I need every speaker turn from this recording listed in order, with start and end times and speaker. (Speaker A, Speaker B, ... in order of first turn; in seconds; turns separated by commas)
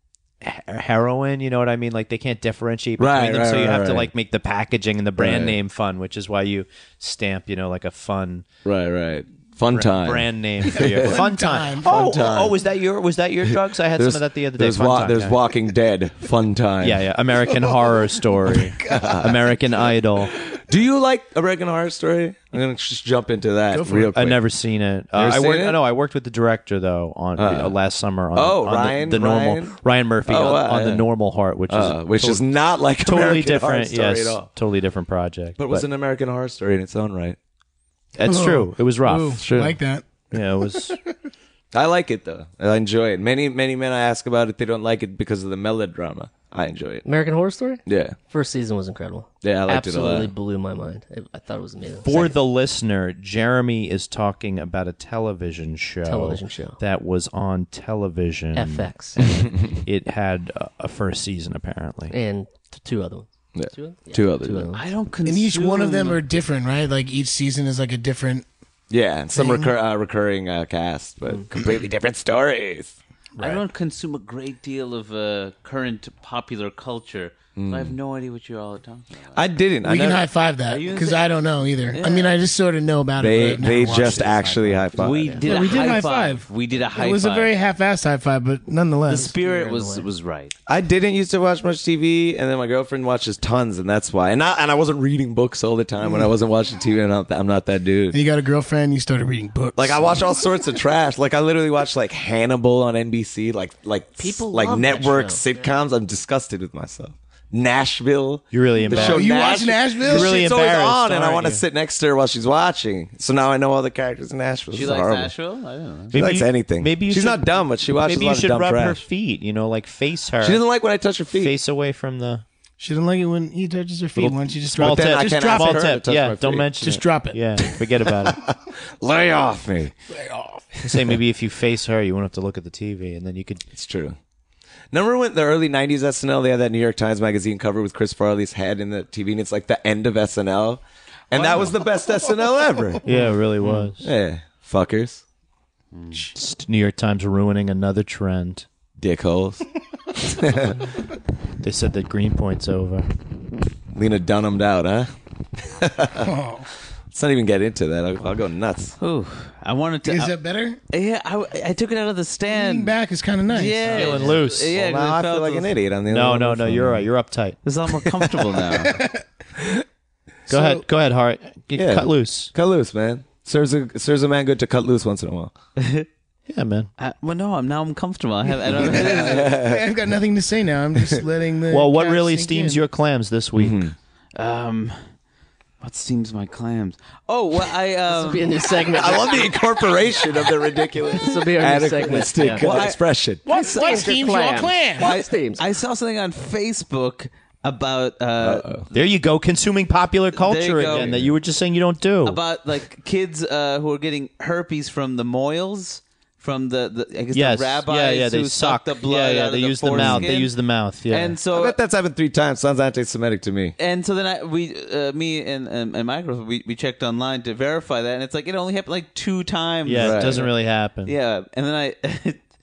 Speaker A: 0.4-8.5, Speaker B: 3.0-4.1, Speaker B: 5.2-5.6, Speaker B: 8.7-11.1, Speaker A: 9.7-15.4, Speaker C: 10.7-12.2, Speaker B: 11.9-12.6, Speaker B: 14.0-17.0, Speaker A: 16.8-20.3, Speaker C: 17.5-19.1, Speaker B: 18.9-19.4, Speaker B: 20.6-24.4, Speaker C: 23.7-24.1, Speaker A: 24.1-32.5, Speaker B: 25.1-25.8, Speaker B: 27.4-27.7, Speaker B: 28.3-31.0, Speaker B: 31.7-34.5, Speaker A: 33.0-35.9, Speaker B: 35.6-37.4, Speaker A: 38.2-39.4, Speaker C: 38.2-40.1, Speaker B: 39.4-39.8, Speaker A: 40.3-41.0, Speaker C: 40.6-41.0, Speaker B: 41.7-47.0, Speaker D: 47.0-52.4, Speaker B: 47.9-48.2, Speaker B: 49.4-50.3, Speaker A: 52.0-62.1, Speaker D: 56.0-56.8, Speaker D: 58.5-59.2, Speaker B: 59.5-59.7, Speaker D: 62.1-64.8, Speaker B: 63.5-64.7, Speaker E: 64.7-66.2, Speaker C: 65.2-68.5, Speaker B: 68.9-73.0, Speaker C: 69.3-69.7, Speaker E: 73.4-79.4, Speaker B: 77.6-77.9, Speaker B: 79.3-80.3, Speaker C: 79.8-84.6, Speaker E: 80.7-82.4, Speaker B: 83.2-85.4, Speaker D: 84.2-85.5, Speaker E: 85.0-87.5, Speaker C: 85.4-89.3, Speaker E: 89.1-90.5, Speaker D: 89.1-90.1, Speaker B: 90.7-98.2, Speaker C: 98.1-100.2, Speaker B: 99.8-115.3, Speaker D: 104.2-105.7, Speaker A: 108.5-109.4, Speaker C: 108.9-110.3, Speaker A: 110.0-111.6, Speaker E: 114.7-116.2, Speaker B: 116.1-119.0, Speaker A: 116.1-120.6, Speaker B: 120.4-121.5, Speaker A: 121.3-122.4, Speaker C: 122.8-125.8, Speaker A: 124.2-128.4, Speaker B: 124.8-126.7, Speaker C: 126.8-127.7, Speaker B: 129.0-129.9, Speaker C: 130.1-130.7, Speaker A: 130.8-133.6, Speaker B: 133.7-134.2, Speaker B: 134.9-143.1, Speaker E: 141.3-141.7, Speaker A: 143.0-144.1, Speaker B: 143.6-145.2, Speaker E: 145.9-146.3, Speaker A: 146.3-148.7, Speaker B: 149.0-149.6, Speaker B: 150.2-150.9, Speaker A: 151.6-153.1, Speaker B: 153.9-155.1, Speaker B: 155.7-156.3, Speaker C: 156.2-156.7, Speaker B: 157.1-159.0, Speaker E: 159.0-160.3, Speaker C: 160.1-160.8, Speaker E: 160.9-162.9, Speaker C: 162.5-164.4, Speaker E: 163.5-165.7, Speaker A: 163.9-164.8, Speaker B: 164.7-167.0, Speaker A: 166.1-167.6, Speaker E: 167.7-169.0, Speaker C: 168.7-169.2, Speaker C: 170.5-170.8, Speaker A: 170.5-172.5, Speaker B: 171.8-175.6, Speaker E: 175.8-176.1, Speaker A: 176.5-176.9, Speaker E: 177.0-179.5, Speaker C: 178.8-182.8, Speaker B: 179.1-179.8, Speaker A: 181.7-183.8, Speaker B: 183.6-183.9, Speaker E: 184.4-185.0, Speaker E: 185.8-188.6, Speaker D: 188.1-189.6, Speaker B: 188.9-193.5, Speaker D: 191.2-192.7, Speaker E: 192.4-194.3, Speaker C: 193.5-195.1, Speaker D: 193.6-195.6, Speaker E: 195.0-198.9, Speaker B: 198.4-198.9, Speaker A: 198.9-202.4, Speaker E: 200.4-201.2, Speaker B: 200.9-201.3, Speaker E: 202.2-210.5, Speaker A: 207.3-211.4, Speaker B: 209.9-210.3, Speaker E: 211.1-211.8, Speaker B: 211.5-213.8, Speaker E: 213.8-222.4, Speaker A: 219.8-221.1, Speaker B: 220.0-220.4